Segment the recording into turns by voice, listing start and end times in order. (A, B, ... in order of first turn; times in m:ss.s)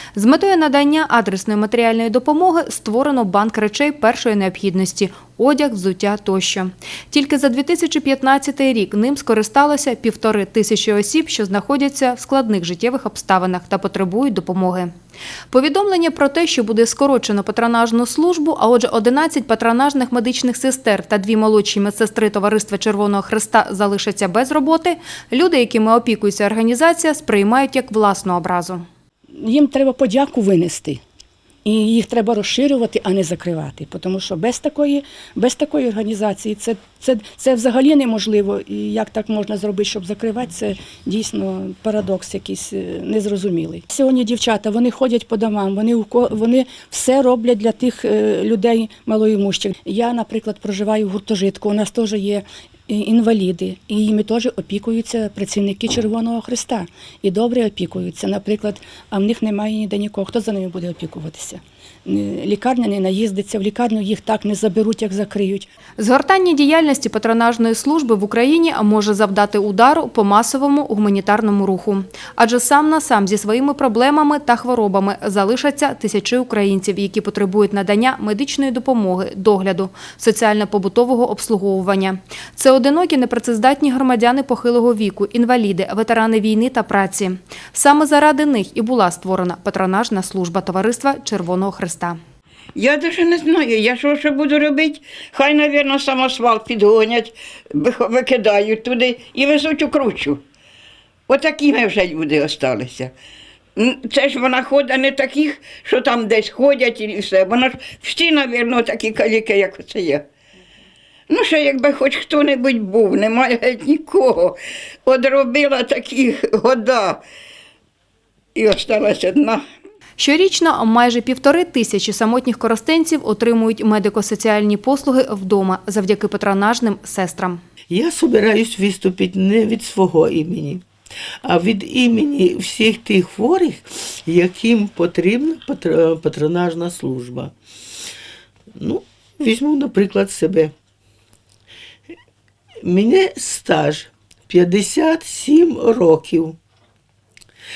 0:00.2-0:14.9 A
0:15.5-0:28.8 A
0:29.4-0:31.0 B
0:31.6-1:05.7 B
1:06.0-1:32.2 A
1:32.8-1:40.4 C
1:41.3-1:43.1 C
1:43.8-1:50.2 C
1:51.3-1:57.2 C
1:58.6-1:59.6 C
2:00.2-2:07.6 A
2:07.9-2:10.8 D
2:11.4-2:17.5 D
2:18.8-2:20.7 D
2:22.8-2:26.6 D